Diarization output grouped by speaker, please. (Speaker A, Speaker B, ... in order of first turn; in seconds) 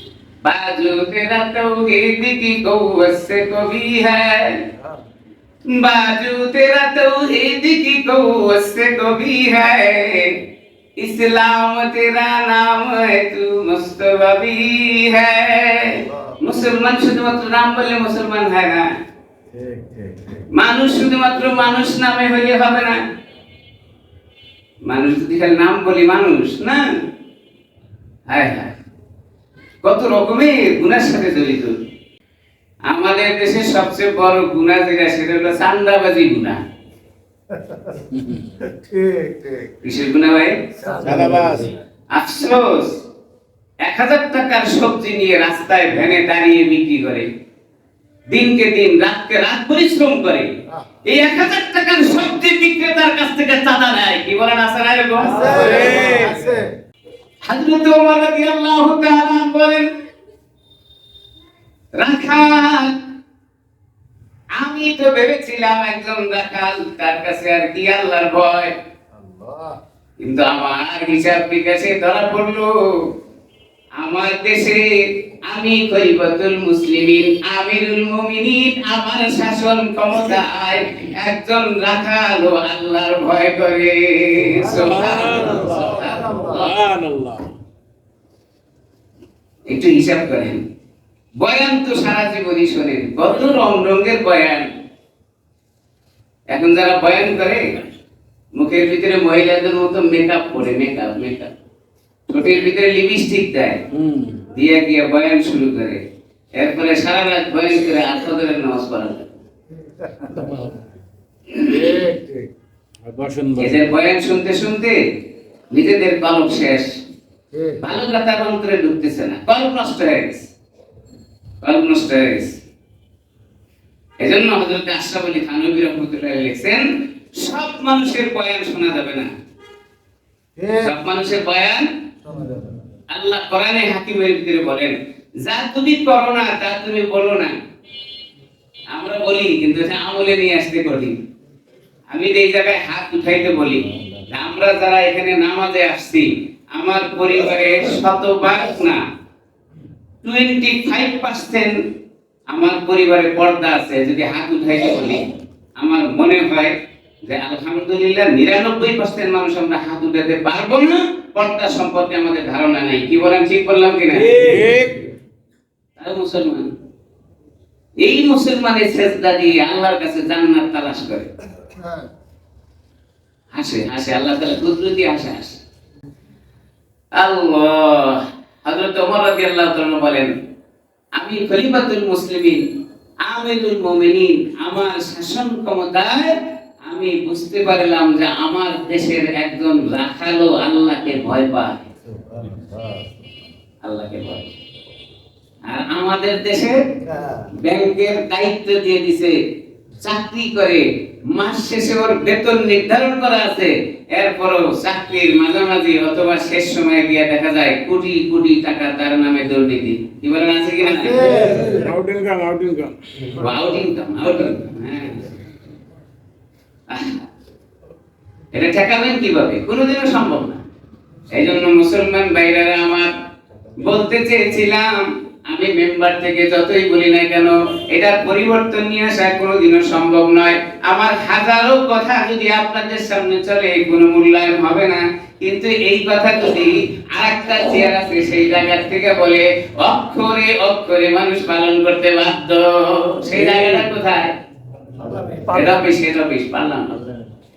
Speaker A: 0.4-4.6, 5.7-10.4, 11.0-18.9, 20.5-23.0, 24.9-26.8, 28.3-28.7, 29.8-31.8, 32.9-36.6, 39.8-40.5, 42.1-43.0, 43.8-47.3, 48.3-50.5, 51.0-56.1, 57.5-59.9, 62.0-63.0, 64.6-68.7, 70.2-72.8, 74.0-86.5, 89.7-90.6, 91.4-94.7, 96.5-97.7, 98.5-101.5, 102.3-103.8, 104.5-106.0, 106.6-109.3, 113.6-115.0, 115.7-117.0, 117.8-120.5, 121.6-122.6, 124.2-129.3, 130.8-131.9, 133.1-137.5, 138.9-141.1, 142.1-149.0, 150.2-151.8, 152.5-155.2, 155.8-156.7, 157.3-164.5, 166.0-166.7, 168.0-171.3, 173.5-175.6, 177.2-180.3, 181.2-182.6, 183.2-191.8, 193.8-194.5, 195.7-196.8, 197.6-199.4, 200.0-211.4, 213.4-215.3, 216.9-217.2, 218.5-220.6, 221.3-223.1, 223.8-244.3, 245.5-247.0
Speaker B: 4.8-5.0, 16.1-16.4, 19.5-20.5, 37.5-38.1, 38.6-39.7, 40.8-41.7, 55.2-56.7, 69.1-69.8, 84.7-86.7, 110.0-110.5, 111.6-112.5, 117.5-117.8, 130.6-130.9, 132.2-132.8, 143.8-144.2, 192.0-193.3, 197.0-197.5, 210.8-211.9, 244.9-245.8, 246.9-247.3
Speaker C: 38.1-38.5, 41.0-41.7, 55.4-56.4, 84.6-87.5, 103.9-104.4, 113.0-113.8, 164.2-165.0, 211.3-213.3, 243.3-243.7